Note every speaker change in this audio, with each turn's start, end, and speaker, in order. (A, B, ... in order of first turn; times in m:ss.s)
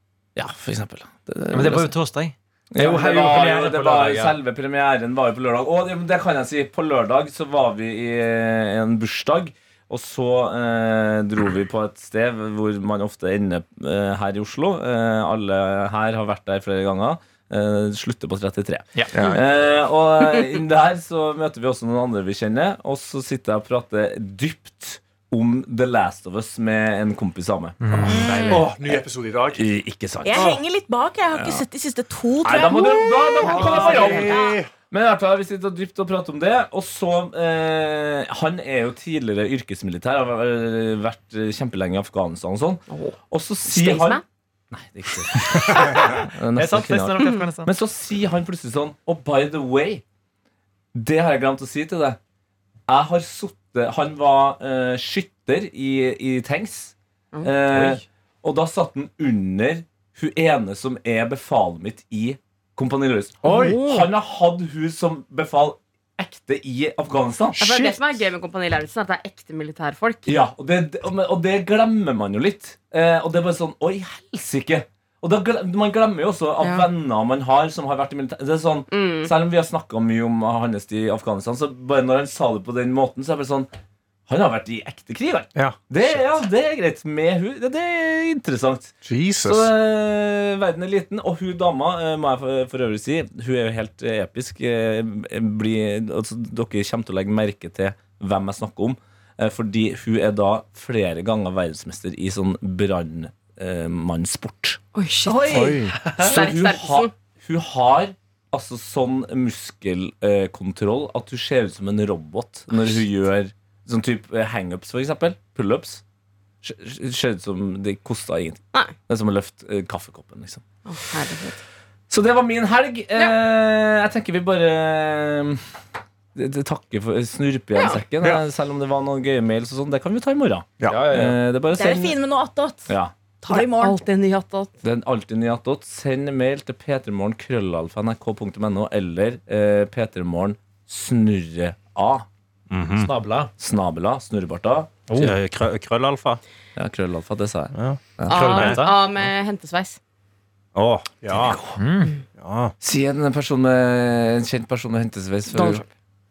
0:00.4-0:01.9 A
0:01.5-0:04.4 B
0:02.7-0:29.0 A
0:27.8-0:28.6 B
0:28.1-0:28.5 C
0:28.5-0:29.6 D
0:29.5-0:30.6 A
0:30.2-0:34.6 C
0:30.3-0:30.6 D
0:31.3-0:31.6 A
0:32.4-0:50.0 A
0:33.4-0:34.7 D
0:42.9-0:43.1 E
0:43.7-0:44.2 E
0:45.6-0:47.7 B
0:50.9-0:52.2 A
0:52.9-1:07.6 A
0:57.7-0:58.0 B
1:03.4-1:03.8 D
1:03.4-1:04.0 E
1:07.6-1:08.0 D
1:07.6-1:10.4 E
1:10.3-1:23.7 A
1:16.6-1:16.9 E
1:18.9-1:19.3 E
1:24.3-1:56.0 A
1:25.6-1:26.1 D
1:29.0-1:29.7 D
1:44.9-1:47.1 E
1:45.5-1:46.0 D
1:56.6-2:00.6 A
2:00.9-2:01.6 E
2:02.1-2:05.6 A
2:06.3-2:12.2 A
2:10.8-2:11.1 D
2:10.9-2:11.4 B
2:11.7-2:12.9 C
2:12.9-2:13.1 A
2:13.4-2:14.0 C
2:13.4-2:14.7 E
2:14.8-2:22.2 A
2:22.7-2:23.1 D
2:23.0-2:23.5 B
2:23.6-2:25.3 A
2:25.2-2:26.4 D
2:26.8-2:28.8 A
2:27.7-2:28.0 D
2:28.3-2:29.2 B
2:28.3-2:30.0 E
2:30.7-2:31.6 D
2:31.3-2:31.8 A
2:31.8-2:32.2 B
2:32.3-2:32.7 D
2:32.8-2:35.8 A
2:35.5-2:35.8 E